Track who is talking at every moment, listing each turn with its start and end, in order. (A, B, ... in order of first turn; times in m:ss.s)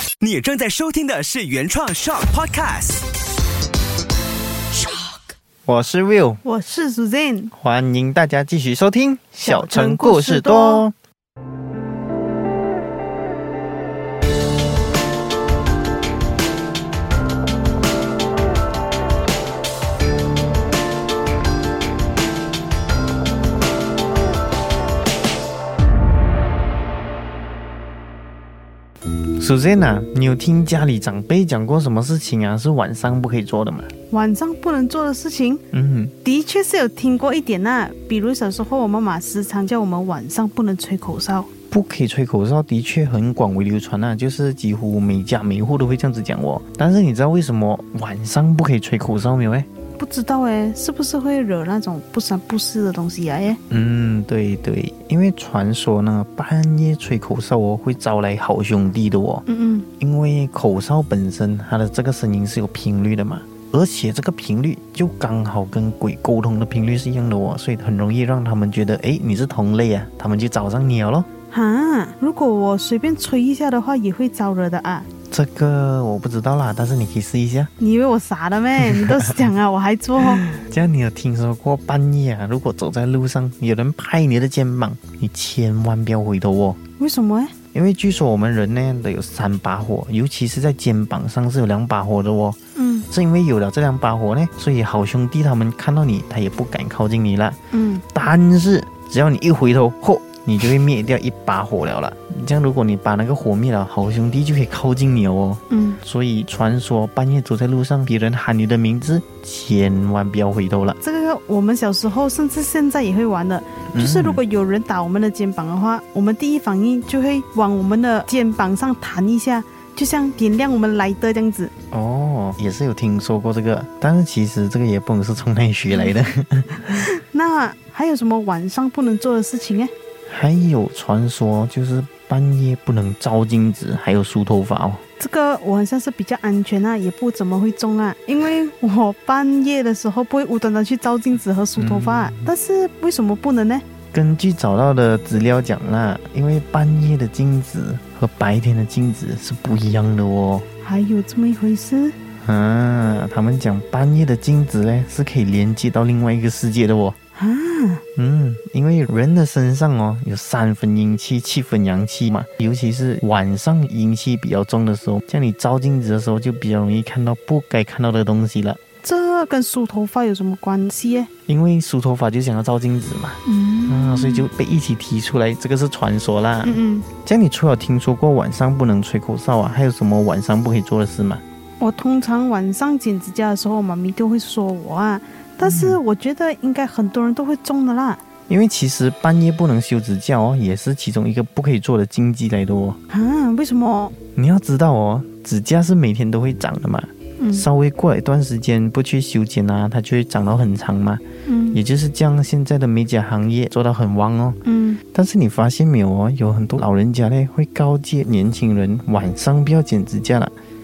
0:00.2-0:03.0 A
0:05.6-0:06.4 B
0:06.4-0:07.5 C
0:07.5-0:10.9 B
0:09.4-0:10.8 C
0:29.4-0:33.9 B
0:34.1-0:35.6 C
0:35.7-0:36.1 B
0:36.2-0:41.5 C
0:41.7-0:49.7 B
0:50.0-0:53.6 C
0:53.7-0:59.4 B
0:59.5-0:59.9 C
1:00.0-1:11.3 B
1:11.5-1:15.1 C
1:15.3-1:17.7 B
1:17.8-1:20.4 C
1:20.4-1:26.8 B
1:27.0-1:27.5 C
1:27.7-1:32.6 B
1:32.8-1:33.1 C
1:33.1-1:51.0 B
1:37.7-1:38.0 C
1:45.7-1:46.0 C
1:51.0-2:01.7 C
1:53.9-1:54.4 B
2:01.9-2:07.0 B
2:05.9-2:06.2 C
2:06.9-2:09.9 C
2:10.3-2:15.0 B
2:15.2-2:23.8 C
2:21.8-2:22.5 B
2:24.1-2:30.6 B
2:30.8-2:32.2 C
2:32.4-2:37.2 B
2:37.3-2:38.0 C
2:38.2-2:48.8 B
2:49.0-2:51.3 C
2:51.5-3:01.4 B
2:53.4-2:54.5 C
2:56.6-2:57.1 C
3:01.8-3:08.2 C
3:05.6-3:06.0 B
3:08.5-3:13.0 B
3:13.1-3:14.2 C
3:14.3-3:24.6 B
3:17.4-3:17.7 C
3:21.4-3:21.8 C
3:24.6-3:25.0 C
3:25.1-3:30.5 B